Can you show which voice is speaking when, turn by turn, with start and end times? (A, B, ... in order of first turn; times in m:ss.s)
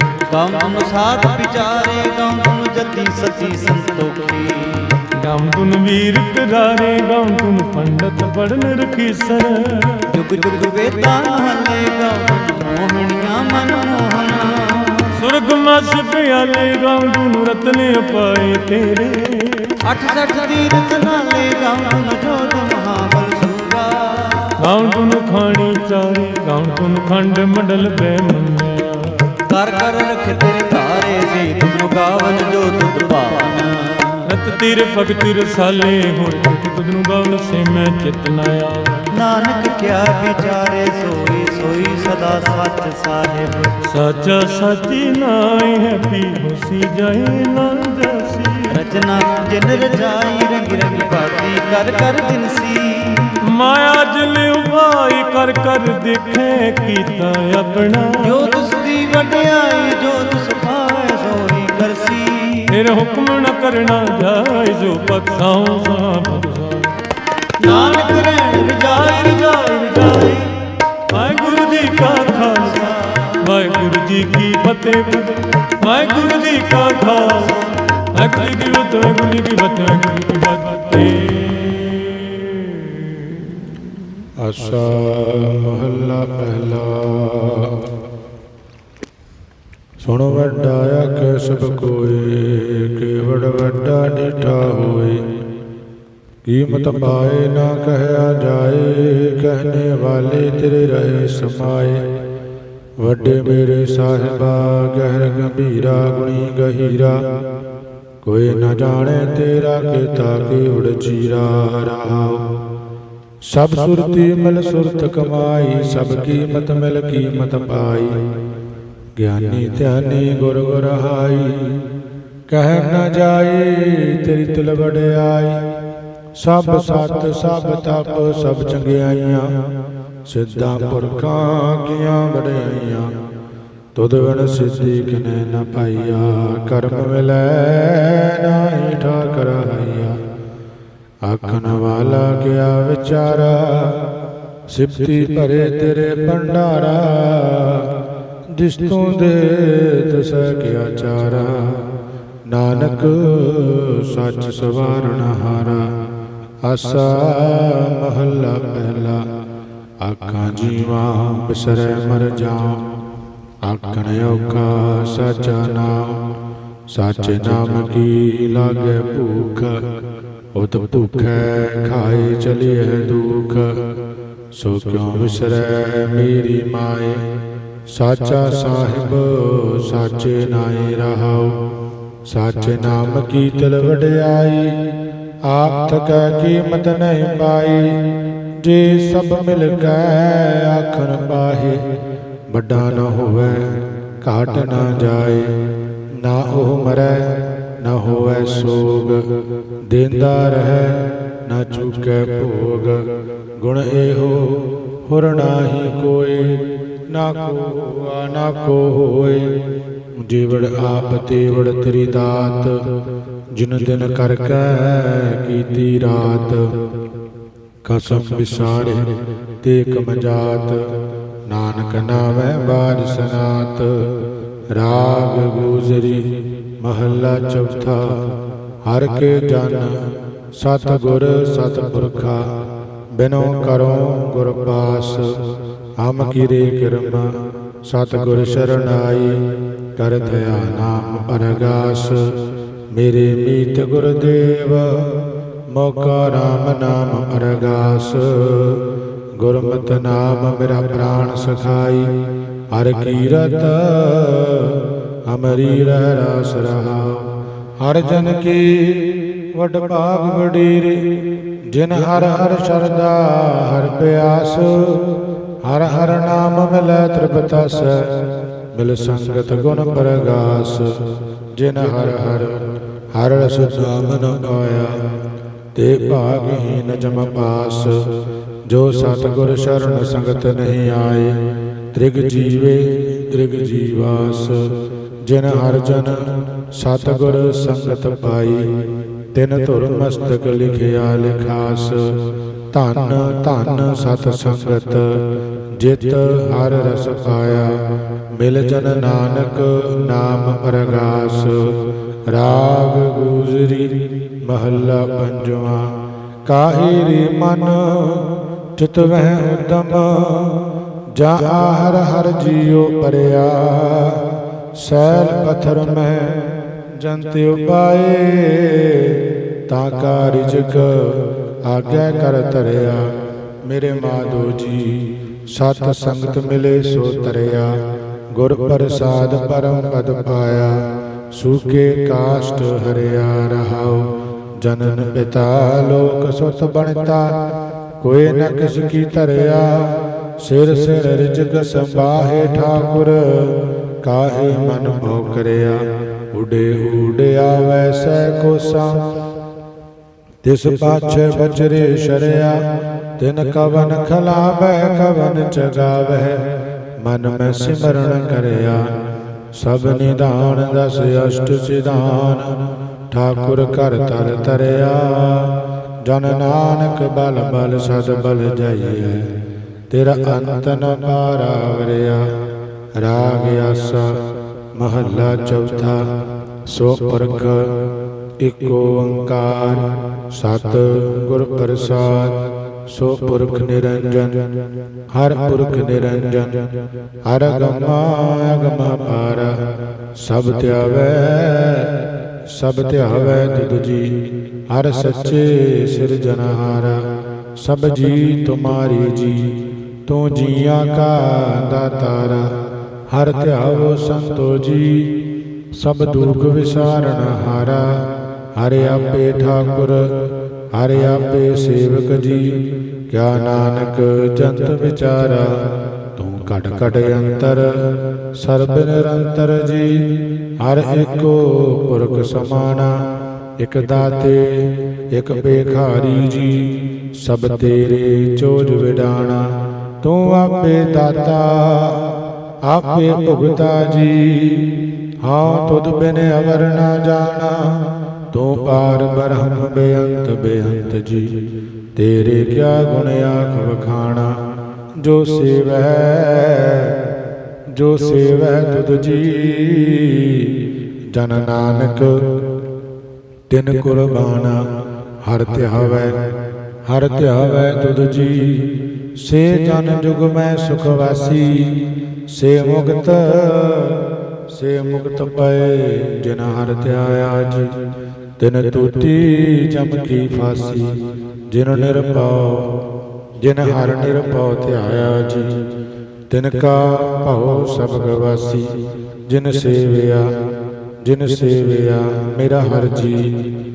0:00.3-0:05.0 A
0:05.2-0:10.1 B
0:10.1-0:15.1 A
0:15.1-0:19.8 B
0:19.8-0:24.6 A
0:24.6-0:29.2 B
0:29.5-0:34.2 A
0:34.2-0:39.1 B
0:39.2-0:43.7 A
0:43.9-0:48.7 B
0:48.7-0:53.4 A
0:53.5-0:58.2 B
0:58.2-1:02.7 A
1:02.7-1:06.9 B
1:07.6-1:10.5 A
1:09.2-1:10.3 B
1:11.1-1:12.8 B
1:12.4-1:13.4 A
1:13.4-1:17.5 B
1:18.1-1:23.6 B
1:24.4-1:27.9 C
1:30.0-1:35.2 C
1:36.4-1:42.0 C
1:43.0-1:47.2 C
1:48.2-1:52.5 C
1:53.5-1:58.2 C
1:59.2-2:01.8 C
2:02.5-2:05.6 C
2:06.4-2:09.5 C
2:10.3-2:13.1 C
2:14.0-2:20.2 C
2:21.2-2:24.0 C
2:24.7-2:27.9 C
2:28.5-2:31.9 C
2:32.5-2:35.9 C
2:36.6-2:39.2 C
2:40.0-2:42.8 C
2:43.6-2:46.2 C
2:46.9-2:49.8 C
2:50.6-2:53.8 C
2:54.5-2:57.2 C
2:57.9-3:01.6 C
3:02.3-3:04.8 C
3:05.5-3:07.9 C
3:08.6-3:11.8 C
3:12.5-3:15.6 C
3:16.2-3:19.3 C
3:19.9-3:23.0 C
3:23.6-3:29.5 C
3:30.2-3:32.8 C
3:33.6-3:36.7 C
3:37.9-3:39.1 C
3:39.6-3:40.8 C
3:41.5-3:44.1 C
3:44.7-3:48.2 C
3:48.8-3:50.0 C
3:50.5-3:52.5 C
3:53.2-3:55.4 C
3:56.0-3:57.3 C
3:57.8-3:59.4 C
4:00.0-4:02.4 C
4:02.9-4:05.1 C
4:05.7-4:08.8 C
4:09.4-4:12.1 C
4:12.7-4:21.1 C
4:21.7-4:25.1 C
4:25.6-4:28.1 C
4:28.7-4:31.0 C
4:31.6-4:32.6 C
4:33.1-4:35.0 C
4:35.8-4:38.1 C
4:38.7-4:41.4 C
4:41.9-4:44.7 C
4:45.2-4:48.7 C
4:49.3-4:52.2 C
4:52.7-4:55.2 C
4:55.8-4:57.8 C
4:58.4-5:05.9 C
5:06.5-5:10.6 C
5:11.2-5:14.2 C
5:14.8-5:23.1 C
5:23.6-5:27.7 C
5:28.4-5:30.8 C
5:31.3-5:34.1 C
5:34.6-5:37.3 C
5:38.0-5:45.8 C
5:46.3-5:49.1 C
5:50.4-5:52.6 C
5:53.2-5:56.4 C
5:57.0-5:58.8 C
5:59.5-6:02.6 C
6:03.1-6:05.5 C
6:06.0-6:09.3 C
6:09.9-6:12.3 C
6:13.0-6:14.2 C
6:14.8-6:16.0 C
6:16.7-6:17.8 C
6:18.4-6:24.5 C
6:25.1-6:26.7 C
6:27.3-6:29.6 C
6:30.2-6:31.9 C
6:32.5-6:37.0 C
6:37.6-6:42.5 C
6:43.1-6:45.2 C
6:45.7-6:50.2 C
6:50.7-6:52.6 C
6:53.1-6:55.6 C
6:56.2-7:03.0 C
7:03.6-7:09.5 C
7:10.0-7:12.1 C
7:12.6-7:21.3 C
7:22.0-7:24.4 C
7:25.0-7:27.0 C
7:27.7-7:30.6 C
7:31.1-7:32.2 C
7:33.5-7:34.6 C
7:35.2-7:36.2 C
7:36.9-7:47.7 C
7:48.4-7:51.0 C
7:51.5-7:52.8 C
7:53.4-7:55.5 C
7:56.3-7:58.7 C
7:59.3-8:00.3 C
8:01.0-8:03.4 C